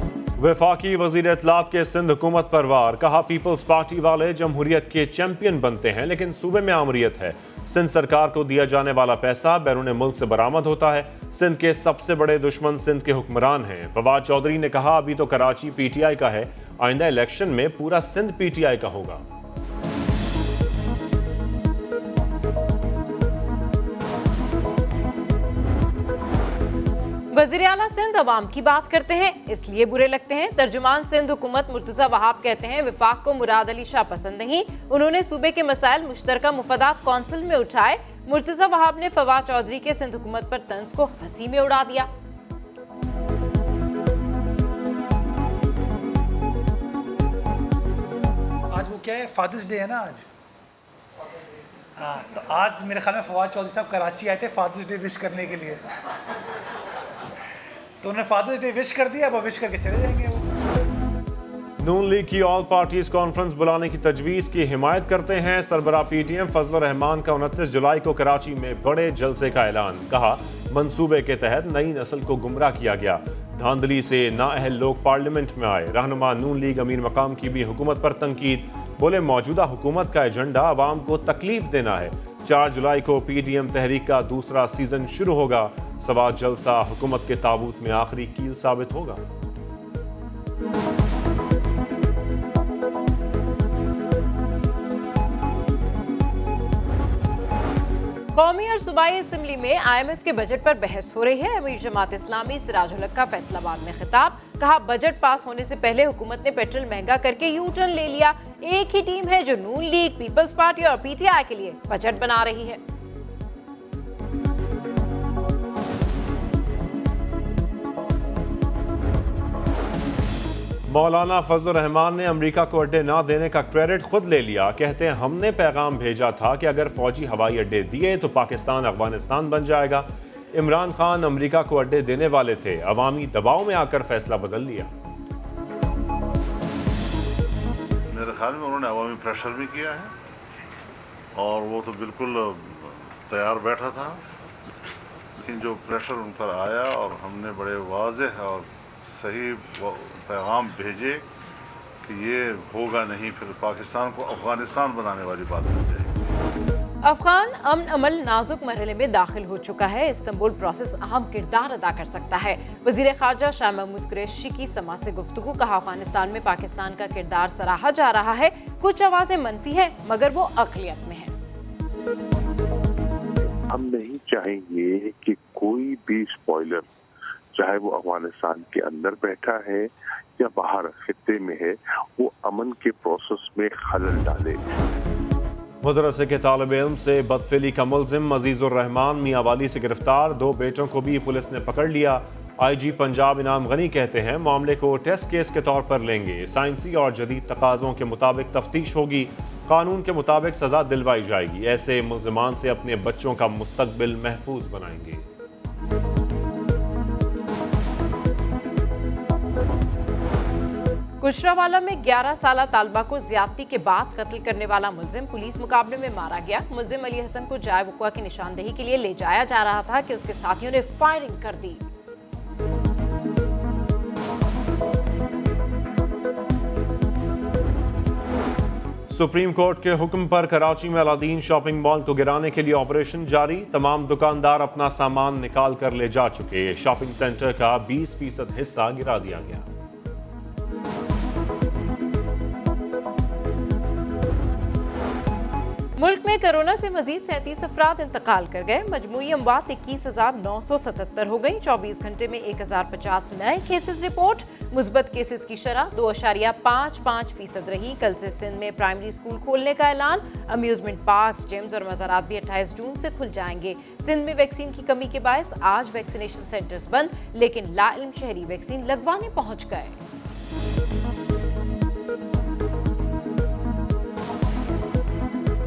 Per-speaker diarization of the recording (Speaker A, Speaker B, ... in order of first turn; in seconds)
Speaker A: 0.4-19.2, 61.8-89.2, 120.9-134.9, 185.8-205.2, 229.1-239.7
Speaker B: 27.3-42.1, 98.3-112.8, 157.0-171.3, 211.2-221.8, 246.0-270.0
Speaker C: 48.7-50.2, 52.0-55.8, 58.0-60.5
Speaker D: 138.1-140.1, 141.3-144.3, 145.4-151.3, 152.0-156.2
Speaker E: 173.6-176.9, 177.5-184.6